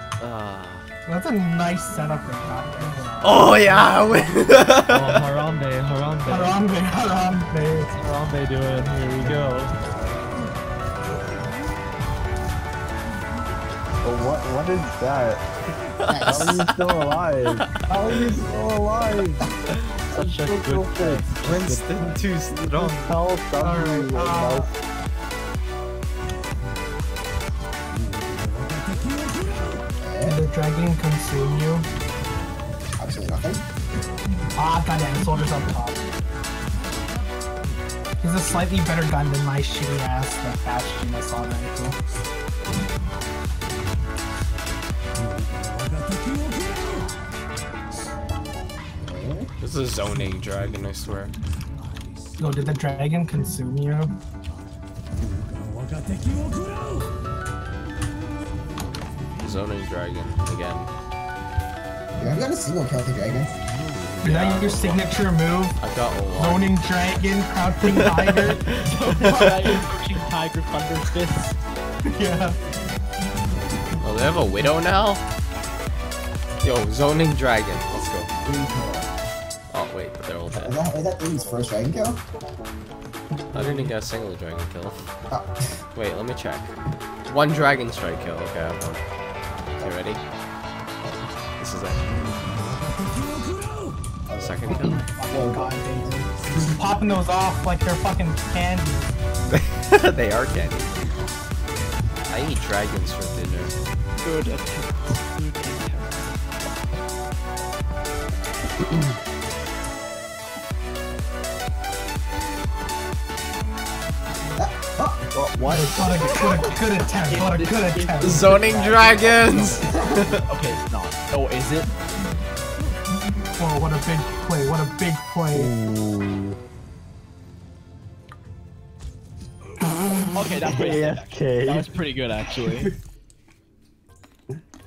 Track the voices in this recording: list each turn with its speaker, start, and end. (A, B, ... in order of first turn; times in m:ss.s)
0:00.2-0:00.8 A
0:01.0-0:04.1 B
0:03.2-0:05.2 A
0:04.8-0:06.6 C
0:06.2-0:07.9 B
0:07.8-0:09.7 C
0:09.2-0:09.6 D
0:14.0-0:15.4 D
0:16.0-0:16.7 A
0:16.1-0:16.6 E
0:16.2-0:19.5 D
0:20.1-0:22.0 C
0:20.1-0:21.2 D
0:21.4-0:23.2 A
0:22.7-0:24.7 D
0:23.6-0:24.7 B
0:30.0-0:30.4 E
0:30.2-0:31.9 B
0:33.0-0:33.6 E
0:34.6-0:36.0 B
0:38.2-0:42.0 B
0:49.0-0:49.5 E
0:49.6-0:51.3 A
0:52.4-0:54.2 B
0:59.4-1:00.9 A
1:02.2-1:03.5 E
1:03.9-1:05.0 A
1:04.2-1:05.8 B
1:05.8-1:06.7 A
1:06.3-1:08.6 B
1:07.8-1:09.8 A
1:08.8-1:11.6 C
1:12.1-1:12.6 B
1:14.0-1:15.2 A
1:16.6-1:18.3 A
1:18.4-1:19.1 E
1:19.7-1:20.8 A
1:20.5-1:22.2 E
1:23.5-1:25.0 A
1:23.5-1:23.8 B
1:25.3-1:25.7 E
1:25.9-1:26.7 A
1:27.3-1:29.0 A
1:29.8-1:30.2 E
1:29.8-1:30.2 A
1:31.6-1:32.4 A
1:34.3-1:35.7 E
1:34.4-1:35.0 A
1:34.6-1:39.1 B
1:39.5-1:40.9 A
1:42.3-1:43.7 A
1:44.2-1:46.3 C
1:54.6-1:55.3 E
1:55.3-1:56.5 C
1:55.7-1:58.5 B
1:57.2-2:01.9 C
1:58.2-2:00.4 A
1:59.7-2:00.3 E
2:03.6-2:05.7 B
2:05.5-2:06.6 D
2:10.3-2:12.9 C
2:10.6-2:11.9 D